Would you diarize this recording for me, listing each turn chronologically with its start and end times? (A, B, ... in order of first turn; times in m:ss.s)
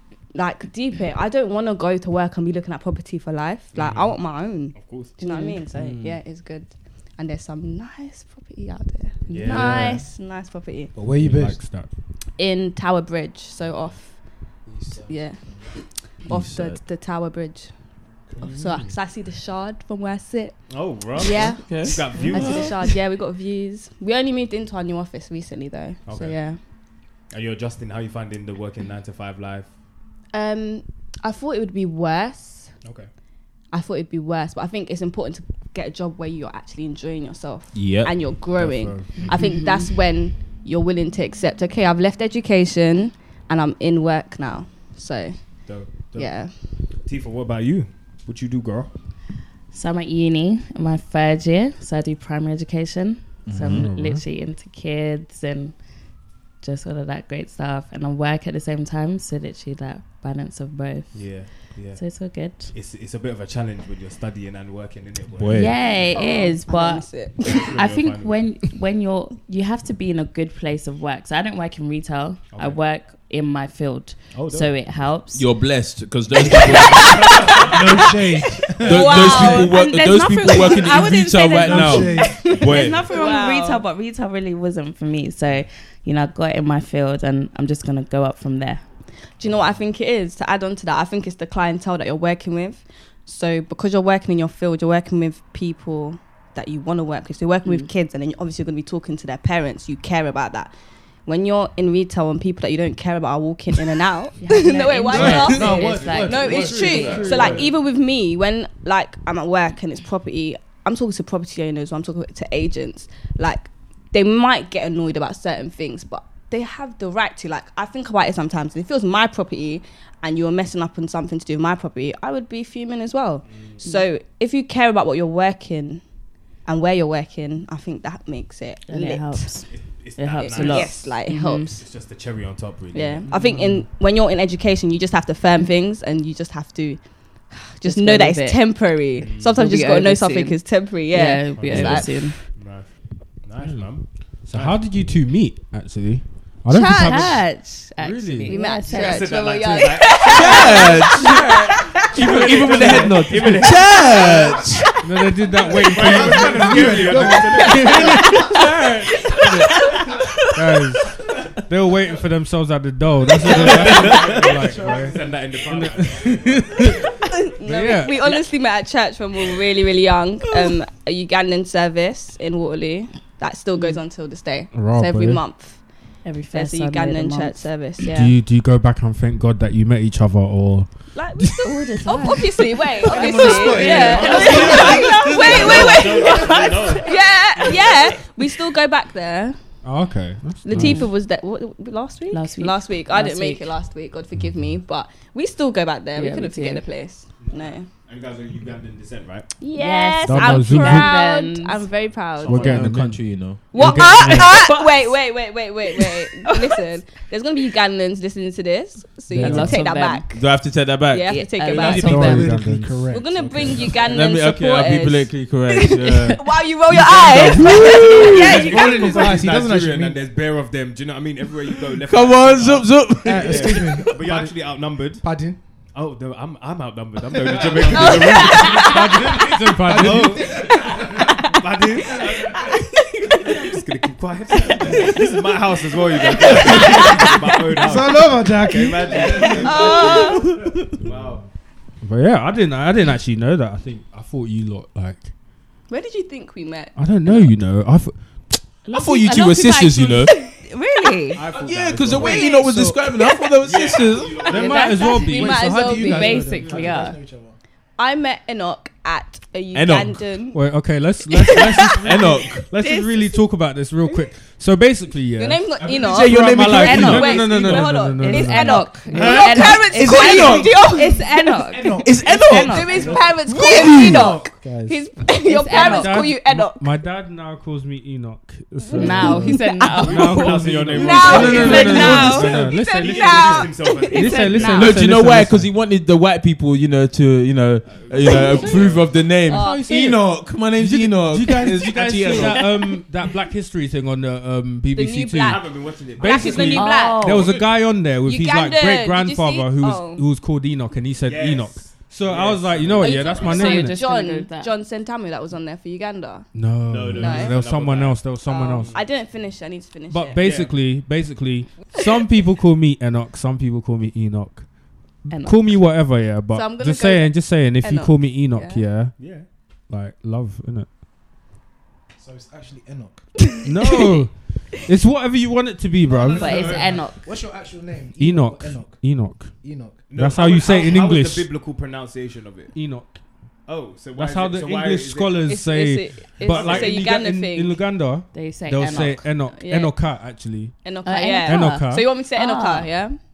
0:00.3-0:11.0 A
0:03.7-0:05.2 B
0:05.2-0:05.6 C
0:05.7-0:06.2 D
0:09.3-0:10.0 B
0:09.5-0:10.0 D
0:11.0-0:11.6 E
0:11.1-0:11.9 D
0:12.4-0:17.8 A
0:14.6-0:15.8 E
0:16.2-0:16.8 F
0:18.4-0:18.9 B
0:18.4-0:26.6 A
0:20.7-0:22.8 B
0:21.6-0:22.8 F
0:26.1-0:26.4 B
0:27.3-0:29.7 B
0:30.3-0:32.7 A
0:32.8-0:33.1 B
0:33.7-0:45.6 A
0:37.7-0:38.4 F
0:38.6-0:39.4 D
0:39.3-0:39.9 C
0:45.6-0:48.9 B
0:46.1-0:46.8 A
0:49.7-0:55.8 C
0:53.5-0:53.9 F
0:53.6-0:54.2 D
0:56.6-1:02.7 C
1:01.1-1:02.0 B
1:02.7-1:05.7 B
1:05.4-1:05.8 F
1:05.5-1:15.5 C
1:05.7-1:07.8 A
1:07.4-1:08.4 B
1:12.5-1:12.8 B
1:14.3-1:14.7 B
1:15.3-1:17.6 F
1:16.5-1:17.9 C
1:16.9-1:17.8 B
1:17.5-1:19.5 E
1:18.8-1:23.1 F
1:18.9-1:19.8 A
1:18.9-1:28.8 C
1:20.6-1:20.9 A
1:21.6-1:22.5 E
1:22.2-1:23.8 A
1:22.6-1:23.0 B
1:29.4-1:40.7 A
1:41.3-2:06.0 A
1:44.4-1:47.3 C
1:45.1-1:47.6 E
1:45.2-1:45.5 F
1:46.5-1:47.7 B
1:46.5-1:47.6 F
2:03.5-2:04.0 B
2:06.7-2:09.5 A
2:08.9-2:11.7 C
2:09.7-2:11.2 B
2:10.4-2:11.8 A
2:11.8-2:13.3 B
2:12.9-2:22.4 A
2:13.3-2:13.9 D
2:17.8-2:18.8 C
2:19.2-2:19.6 B
2:19.4-2:22.4 C
2:21.5-2:22.9 B
2:23.4-2:24.8 B
2:23.6-2:23.9 D
2:24.4-2:27.4 D
2:26.7-2:27.5 A
2:26.9-2:29.6 C
2:28.0-2:28.6 D
2:28.5-2:32.1 A
2:28.9-2:31.3 B
2:30.2-2:34.8 F
2:32.1-2:34.7 B
2:35.0-2:47.1 D
2:35.7-2:38.6 B
2:35.7-2:38.2 E
2:37.8-2:38.5 A
2:39.8-2:40.1 A
2:43.4-2:46.7 B
2:43.6-2:47.1 E
2:47.3-2:55.8 A
2:47.6-2:48.4 D
2:54.7-2:55.4 D
2:56.2-2:58.4 C
2:56.5-2:58.3 A
2:58.1-3:01.6 D
3:01.1-3:09.6 A
3:01.6-3:05.1 C
3:03.1-3:06.9 E
3:03.9-3:08.0 B
3:09.8-3:11.1 D
3:10.6-3:17.9 A
3:10.7-3:11.1 C
3:12.3-3:13.7 C
3:16.2-3:16.8 C
3:17.4-3:19.5 B
3:19.6-3:22.9 A
3:19.8-3:21.8 C
3:20.3-3:21.2 D
3:22.4-3:24.2 F
3:22.4-3:24.6 D
3:23.7-3:32.5 A
3:24.3-3:25.1 C
3:26.0-3:26.8 C
3:29.3-3:29.8 D
3:29.3-3:30.3 C
3:30.3-3:31.3 F
3:31.3-3:32.6 C
3:31.7-3:33.1 D
3:31.7-3:34.2 E
3:33.1-3:39.5 A
3:34.1-3:38.7 F
3:38.0-3:45.4 B
3:38.4-3:40.2 E
3:42.0-3:43.9 F
3:43.2-3:45.6 E
3:45.9-3:52.7 B
3:47.5-3:48.4 E
3:47.5-3:50.5 D
3:47.9-3:49.4 A
3:49.8-3:51.3 E
3:50.6-3:51.1 A
3:52.2-3:53.6 A
3:53.4-4:00.4 B
3:54.9-3:55.2 A
3:56.2-3:57.2 A
3:57.8-4:00.2 E
3:59.4-4:00.5 A
4:00.4-4:01.0 F
4:01.0-4:01.4 B
4:02.0-4:05.3 D
4:05.9-4:07.4 A
4:07.0-4:08.6 D
4:08.8-4:11.4 C
4:08.9-4:10.3 F
4:10.2-4:10.6 A
4:11.4-4:12.6 B
4:11.5-4:14.7 F
4:12.2-4:13.5 A
4:13.6-4:14.6 B
4:14.4-4:16.4 A
4:14.4-4:16.6 D
4:14.5-4:17.2 C
4:15.5-4:17.6 E
4:18.0-4:20.6 A
4:19.7-4:20.2 F
4:20.5-4:25.6 D
4:21.3-4:23.4 A
4:22.0-4:22.6 F
4:25.4-4:36.9 A
4:25.8-4:27.9 F
4:26.2-4:28.9 D
4:26.7-4:33.1 C
4:29.2-4:29.6 B
4:29.9-4:30.8 F
4:31.7-4:32.3 E
4:31.9-4:34.4 F
4:33.0-4:33.3 B
4:33.1-4:33.3 E
4:33.9-4:34.9 E
4:34.6-4:35.0 D
4:35.4-4:36.3 C
4:35.7-4:45.8 D
4:38.8-4:45.0 A
4:38.9-4:40.6 C
4:40.0-4:45.0 B
4:41.3-4:42.5 C
4:41.4-4:42.2 F
4:44.6-4:52.7 F
4:47.8-4:49.2 B
4:48.4-4:50.0 A
4:49.5-4:55.6 D
4:52.3-4:53.0 A
4:54.9-5:00.3 A
4:55.4-4:56.9 B
4:56.2-5:04.0 D
4:56.7-4:57.6 C
5:01.2-5:03.6 B
5:03.0-5:06.5 A
5:03.3-5:04.7 C
5:06.5-5:08.9 D
5:06.9-5:09.1 B
5:07.1-5:07.6 A
5:08.4-5:10.5 A
5:10.1-5:14.7 D
5:10.4-5:10.8 B
5:15.2-5:20.9 D
5:15.3-5:15.8 C
5:16.5-5:18.9 A
5:19.2-5:19.5 B
5:22.2-5:23.3 E
5:23.6-5:26.8 D
5:26.1-5:30.1 E
5:26.3-5:27.4 C
5:28.2-5:31.5 D
5:30.1-5:32.7 B
5:32.7-5:33.1 D
5:33.7-5:35.5 B
5:34.1-5:40.8 D
5:35.4-5:37.8 A
5:36.4-5:36.9 B
5:38.3-5:39.3 C
5:39.5-5:40.0 A
5:40.8-5:43.2 A
5:41.0-5:42.9 C
5:41.4-5:42.1 D